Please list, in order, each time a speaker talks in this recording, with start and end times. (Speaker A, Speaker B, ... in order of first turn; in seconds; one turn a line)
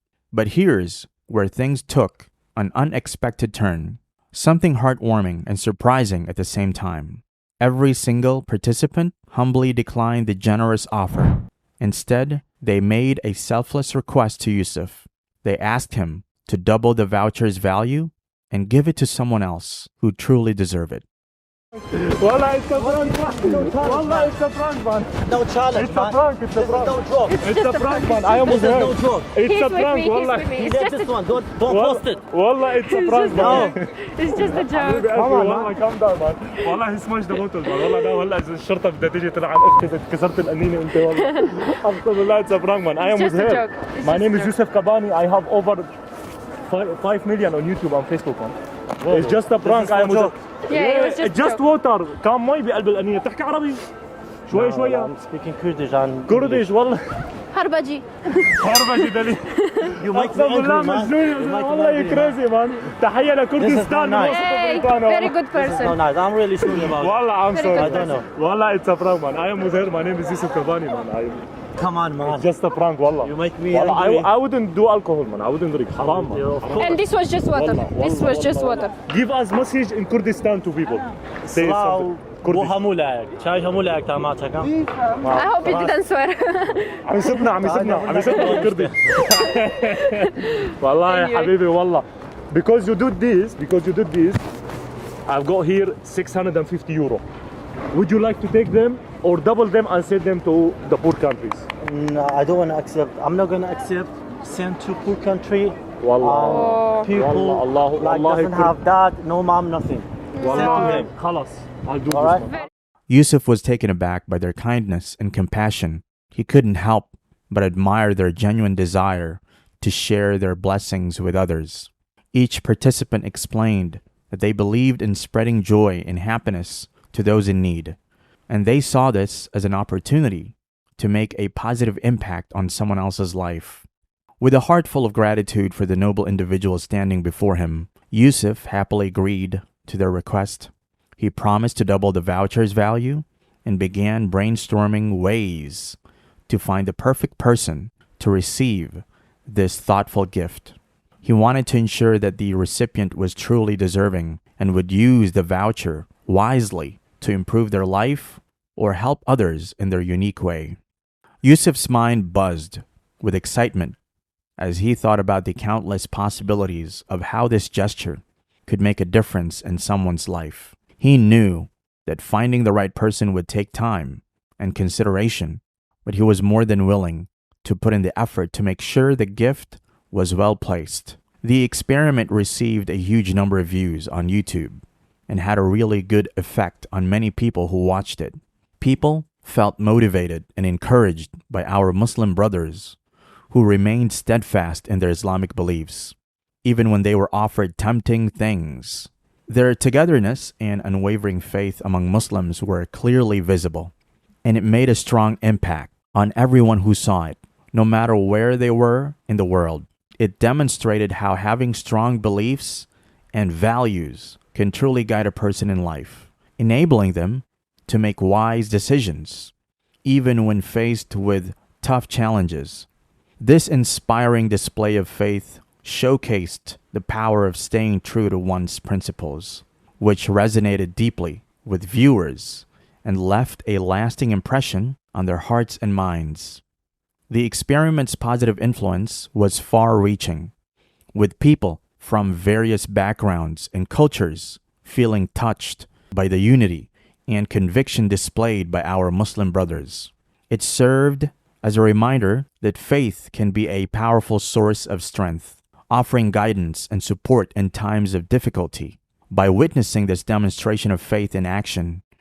Speaker A: 0.3-21.1
Speaker B: 21.9-25.2
Speaker C: 22.7-24.3
Speaker C: 25.2-27.4
Speaker B: 25.8-30.6
Speaker D: 27.3-28.5
Speaker C: 28.4-29.3
Speaker D: 29.4-31.2
Speaker C: 30.6-32.2
Speaker B: 31.7-45.9
Speaker D: 32.7-35.3
Speaker C: 33.3-33.8
Speaker C: 35.1-35.7
Speaker D: 37.7-38.2
Speaker D: 41.1-41.7
Speaker D: 43.0-44.5
Speaker B: 46.6-53.9
Speaker C: 49.0-50.3
Speaker D: 50.7-51.6
Speaker B: 54.5-55.1
Speaker C: 54.5-56.6
Speaker B: 56.3-57.0
Speaker D: 57.5-60.0
Speaker B: 58.5-65.4
Speaker C: 60.0-62.4
Speaker C: 63.6-64.4
Speaker D: 64.2-66.0
Speaker C: 65.5-68.3
Speaker B: 66.6-71.5
Speaker D: 67.5-68.2
Speaker C: 71.8-72.5
Speaker B: 72.2-77.0
Speaker C: 73.2-74.3
Speaker C: 76.0-77.0
Speaker D: 76.8-78.9
Speaker B: 77.5-82.8
Speaker C: 81.4-84.9
Speaker B: 85.2-85.8
Speaker D: 85.3-87.0
Speaker C: 85.6-86.0
Speaker B: 87.0-94.4
Speaker C: 87.2-89.3
Speaker D: 88.3-88.6
Speaker D: 89.4-91.5
Speaker B: 95.3-97.2
Speaker B: 97.9-101.7
Speaker C: 101.8-111.1
Speaker B: 106.0-108.7
Speaker D: 106.5-107.1
Speaker D: 110.3-111.0
Speaker B: 110.4-112.7
Speaker C: 112.1-112.5
Speaker A: 113.1-128.0
Speaker A: 128.5-133.9
Speaker A: 134.4-160.8
Speaker A: 161.4-164.0
Speaker A: 164.6-193.0
Speaker A: 193.5-203.9
Speaker A: 204.4-219.5
Speaker A: 220.0-222.9
Speaker A: 223.4-236.6
Speaker A: 237.3-240.5
Speaker A: 241.1-262.0